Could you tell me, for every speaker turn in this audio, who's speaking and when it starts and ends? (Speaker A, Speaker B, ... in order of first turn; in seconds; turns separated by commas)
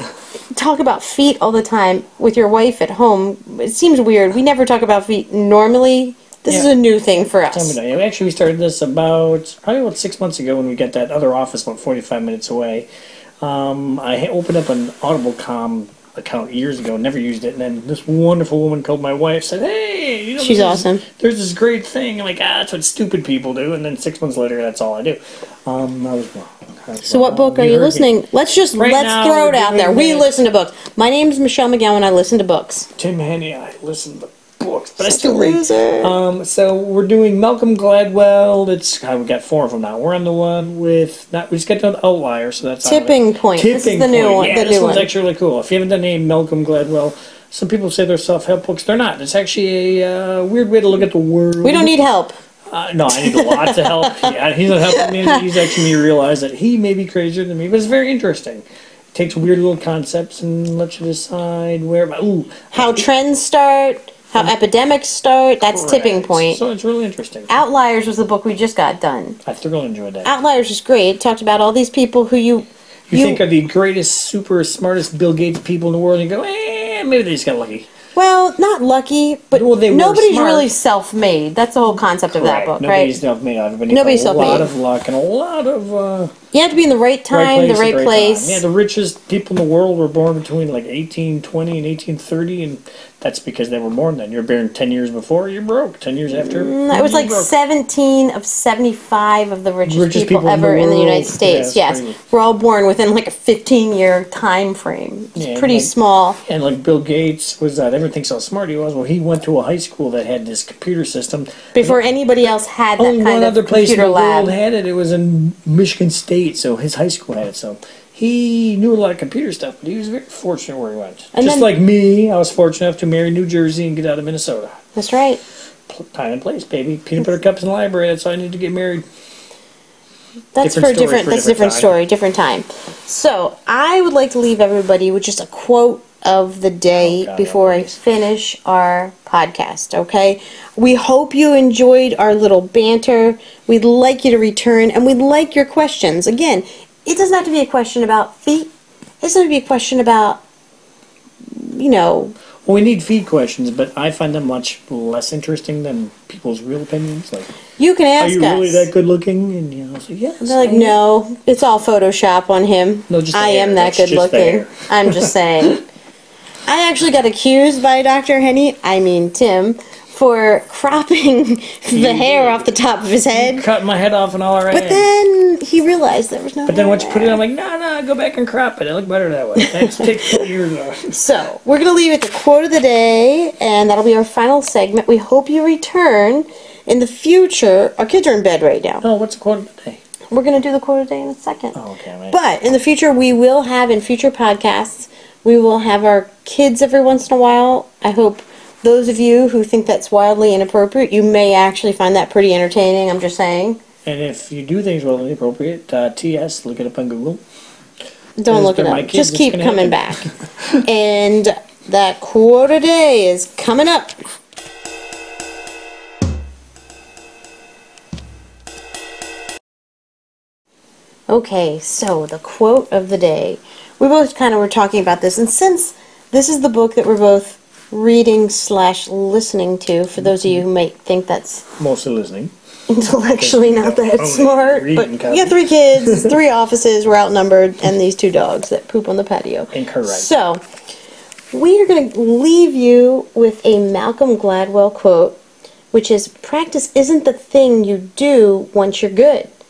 Speaker A: 0.5-7.8, Speaker B: 7.5-12.8, Speaker B: 13.4-28.1, Speaker A: 20.4-21.0, Speaker A: 27.0-32.9, Speaker B: 28.8-30.3, Speaker B: 33.0-51.9, Speaker A: 35.0-36.1, Speaker A: 42.8-45.1, Speaker A: 51.6-52.3, Speaker B: 52.7-63.1, Speaker A: 53.1-54.3, Speaker A: 54.9-55.8, Speaker A: 62.7-66.6, Speaker B: 65.7-67.5, Speaker A: 67.5-69.4, Speaker B: 69.4-70.3, Speaker A: 70.2-73.4, Speaker B: 73.1-77.9, Speaker A: 78.1-83.2, Speaker B: 79.5-80.7, Speaker B: 82.2-86.3, Speaker A: 83.9-84.7, Speaker A: 86.5-88.6, Speaker B: 87.3-97.5, Speaker A: 96.3-106.4, Speaker B: 99.8-102.2, Speaker B: 105.3-105.9, Speaker B: 106.4-112.0, Speaker A: 111.7-114.5, Speaker B: 113.0-124.8, Speaker A: 121.3-121.7, Speaker A: 124.9-125.4, Speaker B: 125.9-129.0, Speaker A: 130.5-148.7, Speaker B: 130.6-131.9, Speaker B: 136.9-138.0, Speaker A: 149.2-150.4, Speaker A: 151.5-152.3, Speaker B: 152.6-157.5, Speaker A: 157.8-158.9, Speaker B: 158.2-161.0, Speaker A: 160.4-165.8, Speaker B: 163.1-165.7, Speaker A: 166.7-173.6, Speaker B: 171.9-172.7, Speaker B: 173.3-175.1, Speaker A: 174.7-177.4, Speaker B: 176.7-181.1, Speaker A: 179.6-180.4, Speaker A: 181.1-189.0, Speaker B: 189.0-190.0, Speaker A: 190.3-191.8, Speaker B: 191.7-192.4, Speaker A: 192.3-203.8, Speaker B: 204.0-207.4, Speaker A: 208.4-214.1, Speaker B: 208.5-210.3, Speaker A: 221.3-231.7, Speaker B: 231.8-232.5, Speaker A: 232.9-240.6, Speaker B: 233.2-236.4, Speaker B: 239.7-240.3, Speaker A: 241.5-245.3, Speaker A: 245.9-249.5